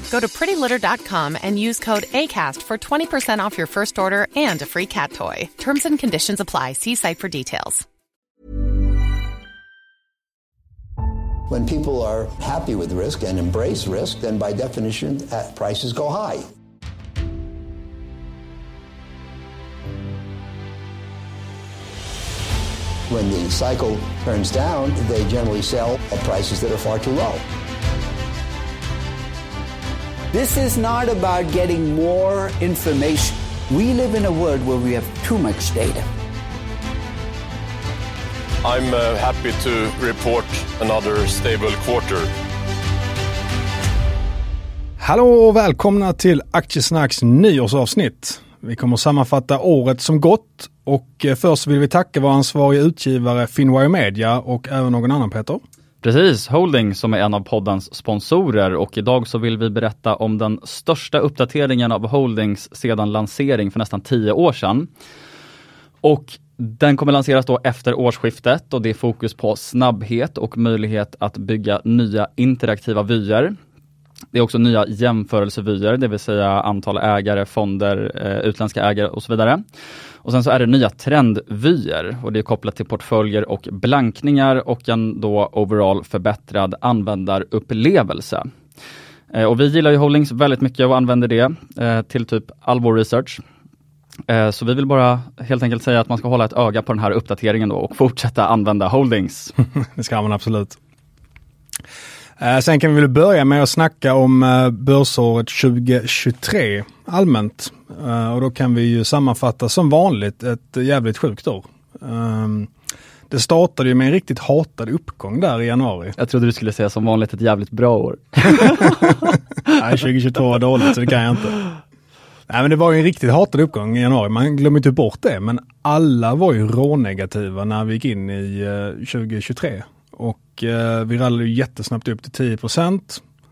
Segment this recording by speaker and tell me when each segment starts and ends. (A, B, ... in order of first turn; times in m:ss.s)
0:00.1-0:07.8 A
0:11.5-0:16.4 B
0:23.1-0:27.4 B
0:30.3-0:36.0 C
0:38.6-0:42.3 D
0:45.0-0:55.6 E
0:56.0-1:04.9 F
1:06.0-1:13.5 F
1:14.3-1:19.6 F
1:20.2-1:28.5 F
1:29.3-1:33.4 F
1:34.3-1:39.5 F
1:39.8-1:40.8 E
1:42.4-1:52.7 E
1:53.3-1:56.2 E
1:56.2-1:59.7 F
1:59.7-2:01.6 E
2:02.5-2:13.2 E